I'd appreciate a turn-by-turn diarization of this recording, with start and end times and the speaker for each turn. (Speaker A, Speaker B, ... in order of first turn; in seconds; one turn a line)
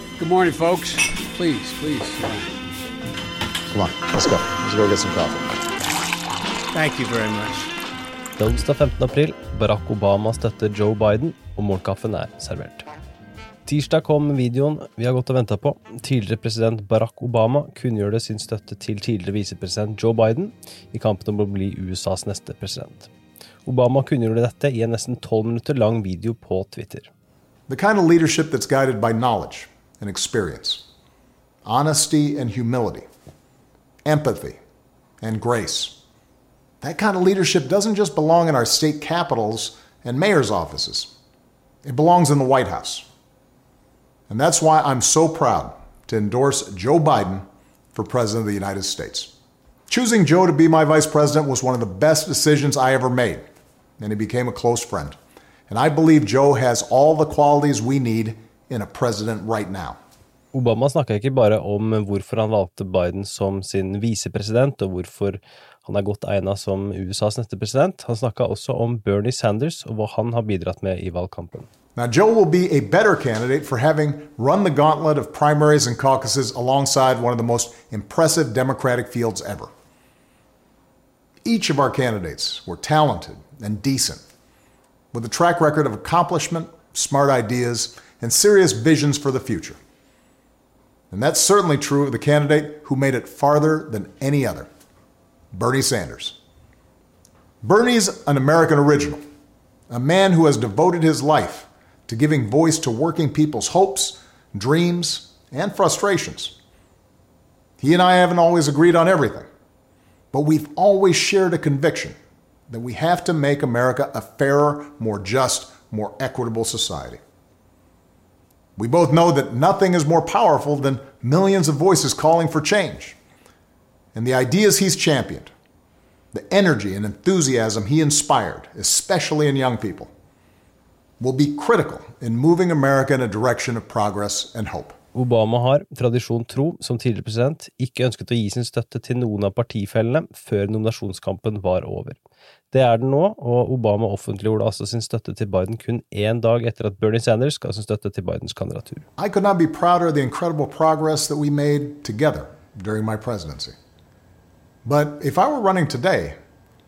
Speaker A: 0.2-2.5
Speaker B: 3.7-5.6
Speaker A: 6.7-7.7
Speaker C: 8.4-12.9
Speaker C: 13.7-23.1
Speaker C: 23.7-27.1
Speaker B: 27.7-30.8
Speaker B: 31.6-33.1
Speaker B: 34.0-34.6
Speaker B: 35.2-36.0
Speaker B: 36.8-41.1
Speaker B: 41.9-43.1
Speaker B: 44.3-49.3
Speaker B: 49.9-53.5
Speaker B: 54.0-55.2
Speaker B: 55.7-60.0
Speaker C: 60.5-71.7
Speaker B: 72.0-79.7
Speaker B: 81.5-84.2
Speaker B: 85.1-89.8
Speaker B: 91.1-94.7
Speaker B: 95.5-96.4
Speaker B: 97.6-99.2
Speaker B: 99.9-106.5
Speaker B: 107.8-109.5
Speaker B: 110.3-112.2
Speaker B: 112.7-117.2
Speaker B: 118.8-123.2
Speaker B: 124.2-125.5
Speaker B: 126.3-130.1
Speaker B: 131.2-135.0
Speaker C: 135.1-142.2
Speaker C: 142.7-149.1
Speaker B: 149.2-153.8
Speaker B: 154.8-156.4